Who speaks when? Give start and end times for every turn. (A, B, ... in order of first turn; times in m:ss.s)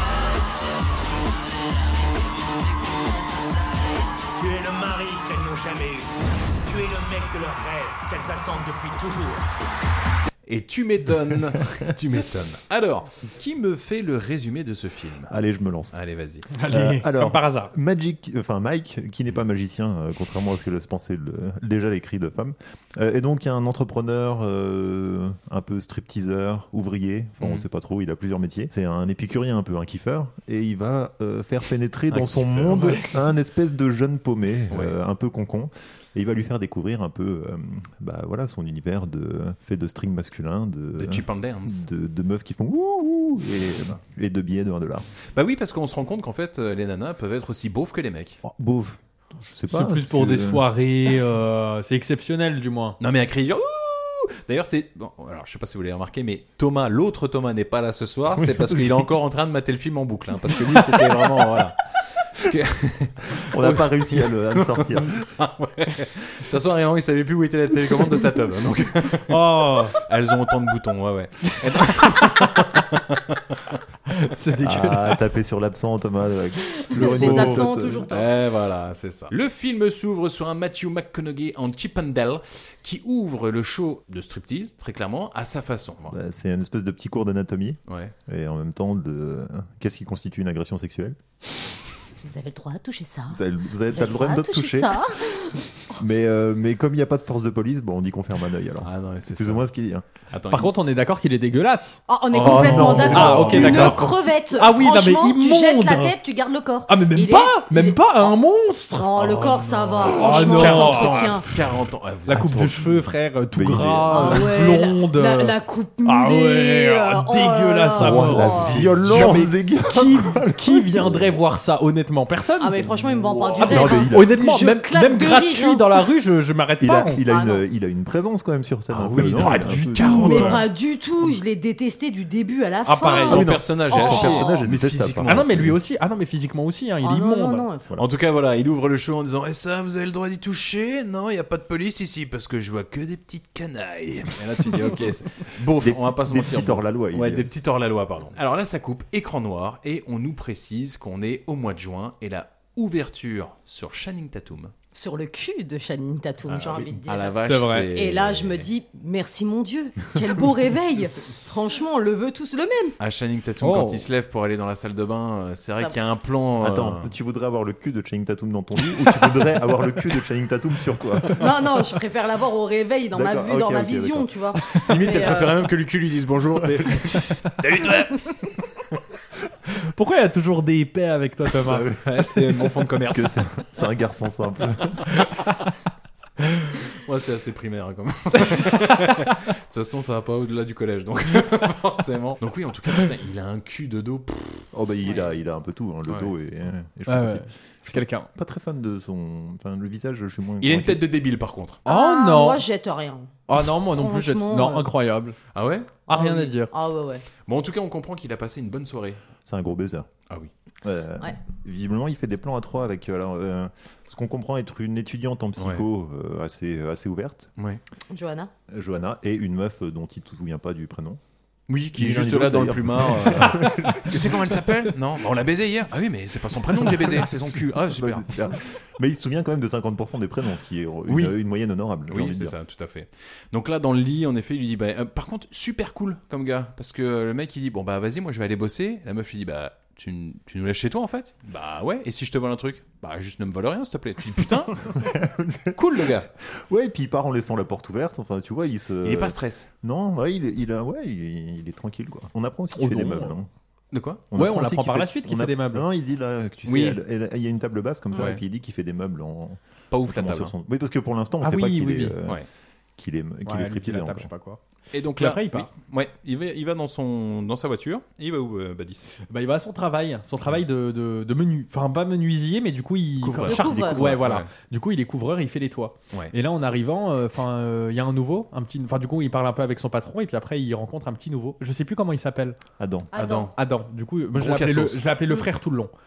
0:04.4-0:06.1 A
0:06.7-0:09.4 A
0:10.5-0:15.4 B
0:15.3-0:16.0 C
0:15.9-0:16.5 B
0:16.6-0:17.7 D
0:16.7-0:45.1 C
0:27.4-0:27.6 B
0:32.1-0:32.9 B
0:32.6-0:33.1 D
0:41.0-0:41.9 B
0:45.3-0:48.4 B
0:48.4-0:50.7 C
0:49.7-0:53.0 D
0:53.0-1:09.4 B
0:58.4-0:59.1 C
1:03.5-1:05.3 C
1:09.3-1:10.0 D
1:09.9-1:13.8 B
1:14.1-1:15.3 D
1:14.6-1:18.1 C
1:16.9-1:17.7 D
1:16.9-1:18.3 E
1:18.1-1:26.2 B
1:26.1-1:31.2 C
1:27.9-1:28.1 B
1:32.2-1:33.4 E
1:33.3-1:35.0 C
1:33.9-1:35.6 E
1:35.9-1:40.0 C
1:38.8-1:39.6 B
1:40.3-1:40.7 B
1:40.5-1:42.0 D
1:42.1-1:51.4 E
1:42.3-1:44.0 B
1:42.3-1:44.2 C
1:43.1-1:46.2 D
1:46.9-1:49.1 D
1:49.2-1:52.8 B
1:50.0-1:51.3 D
1:52.3-2:02.9 D
1:53.5-1:54.8 C
1:54.1-1:58.8 E
1:58.0-2:01.4 C
2:02.6-2:06.1 E
2:03.0-2:04.3 C
2:03.6-2:07.2 D
2:06.8-2:10.6 C
2:07.2-2:07.6 E
2:08.9-2:10.6 B
2:09.2-2:10.7 D
2:10.0-2:14.6 E
2:12.8-2:13.4 D
2:13.2-2:15.6 B
2:13.3-2:15.8 C
2:15.3-2:17.7 D
2:17.0-2:17.8 E
2:18.0-2:34.7 B
2:25.8-2:27.5 C
2:34.9-2:43.0 E
2:36.5-2:38.7 B
2:37.4-2:37.9 D
2:43.0-2:47.1 B
2:43.6-2:44.1 D
2:46.6-2:51.6 C
2:51.3-2:55.5 E
2:53.1-2:54.3 C
2:54.9-2:58.3 B
2:55.0-2:55.4 C
2:59.8-3:01.9 D
3:01.7-3:03.5 B
3:03.0-3:05.0 C
3:06.9-3:15.2 B
3:08.8-3:09.3 D
3:14.7-3:21.1 C
3:17.1-3:18.3 D
3:20.6-3:21.8 B
3:21.9-3:22.6 D
3:21.9-3:24.9 E
3:23.5-3:25.4 D
3:25.5-3:26.0 B
3:26.1-3:26.7 D
3:26.1-3:27.2 E
3:27.5-3:29.2 B
3:29.4-3:30.1 C
3:30.8-3:37.5 C
3:35.6-3:35.8 B
3:38.1-3:38.5 E
3:38.7-3:41.2 C
3:41.7-3:48.3 B
3:42.0-3:44.6 C
3:46.8-3:52.6 C
3:51.1-3:51.4 B
3:52.1-4:04.8 B
4:04.9-4:06.1 C
4:05.7-4:06.3 B
4:06.7-4:13.5 C
4:09.0-4:09.7 B
4:12.7-4:13.4 D
4:13.9-4:14.2 B
4:14.3-4:22.4 C
4:14.3-4:15.9 D
4:16.7-4:17.0 B
4:18.2-4:18.4 B
4:19.9-4:20.5 B
4:21.4-4:22.2 D
4:23.0-4:24.3 C
4:23.4-4:24.6 D
4:24.9-4:29.1 B
4:25.2-4:25.7 D
4:29.3-4:42.6 D
4:33.2-4:34.5 B
4:33.5-4:34.2 C
4:33.5-4:34.0 E
4:42.8-4:43.1 C
4:43.1-4:43.5 E
4:43.1-4:43.5 B
4:43.6-4:45.9 D
4:44.4-4:45.0 B